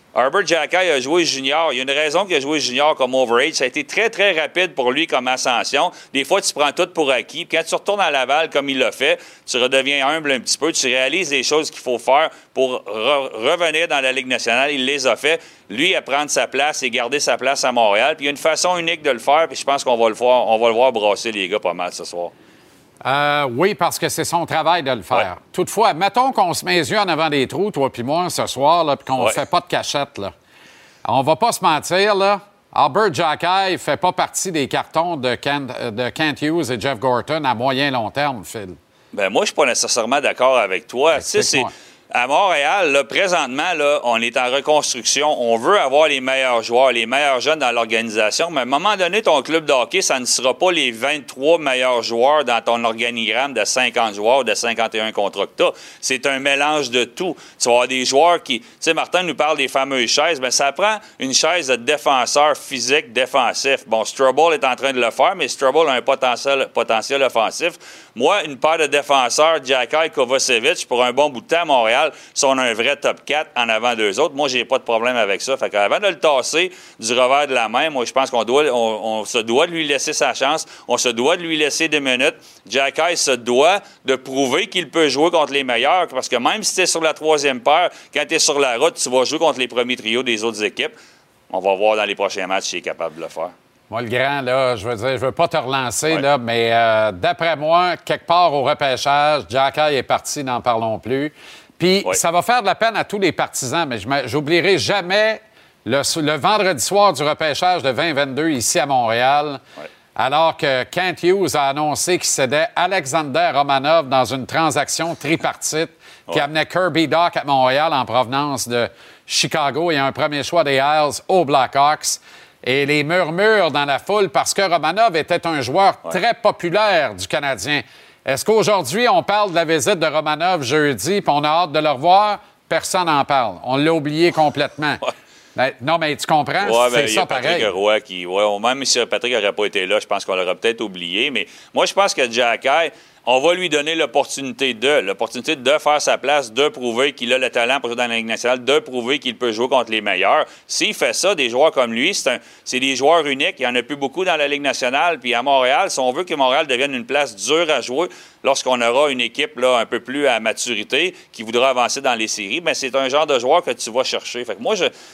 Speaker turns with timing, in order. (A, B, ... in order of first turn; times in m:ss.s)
0:00.2-0:22.3 A
0:23.0-0:30.3 B
0:31.0-0:38.8 B
0:39.1-1:31.0 A
0:41.1-0:41.7 B
1:31.5-1:33.5 A
1:33.9-1:49.6 B
1:50.2-2:15.0 B
2:15.6-2:17.7 B
2:16.6-2:44.9 A